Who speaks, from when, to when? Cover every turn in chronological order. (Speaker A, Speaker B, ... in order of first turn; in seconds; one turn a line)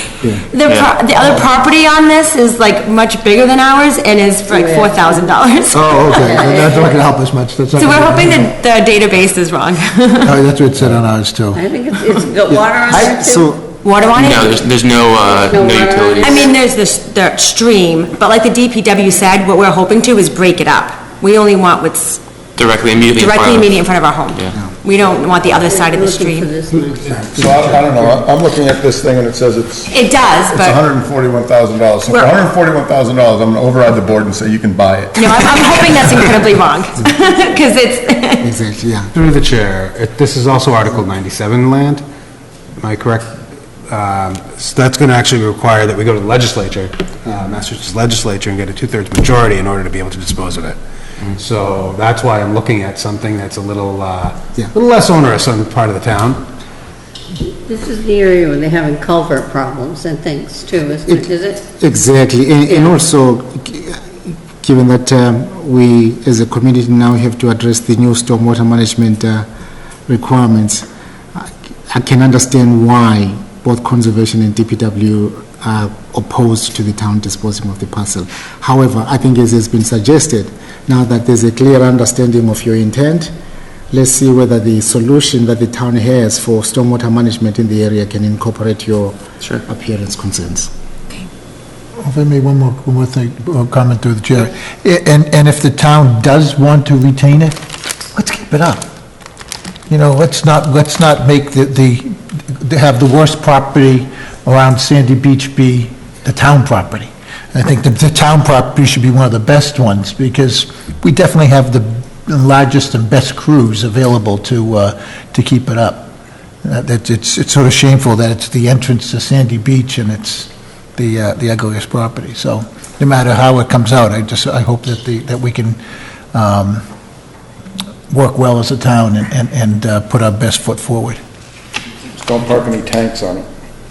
Speaker A: 0.5-6.4
Speaker B: 0.7-1.4
Speaker C: 4.5-5.2
Speaker D: 5.7-8.6
Speaker C: 6.0-7.0
Speaker A: 7.8-10.4
Speaker D: 10.2-11.6
Speaker C: 11.5-13.5
Speaker E: 12.5-13.7
Speaker A: 13.8-14.6
Speaker B: 14.2-16.5
Speaker C: 15.2-16.5
Speaker A: 16.2-22.2
Speaker B: 23.0-23.7
Speaker A: 23.1-26.5
Speaker C: 25.6-27.5
Speaker F: 27.2-27.8
Speaker G: 27.3-36.0
Speaker A: 29.9-30.8
Speaker A: 32.1-32.3
Speaker A: 35.1-38.5
Speaker E: 38.4-39.1
Speaker F: 39.1-42.0
Speaker F: 42.8-56.5
Speaker C: 57.4-61.6
Speaker E: 61.1-69.5
Speaker C: 62.7-63.0
Speaker E: 70.1-83.3
Speaker E: 83.9-90.7
Speaker D: 92.0-97.5
Speaker D: 98.1-98.8
Speaker D: 99.9-116.1
Speaker D: 116.6-125.8
Speaker D: 126.3-126.8
Speaker D: 128.1-131.2
Speaker G: 132.1-133.4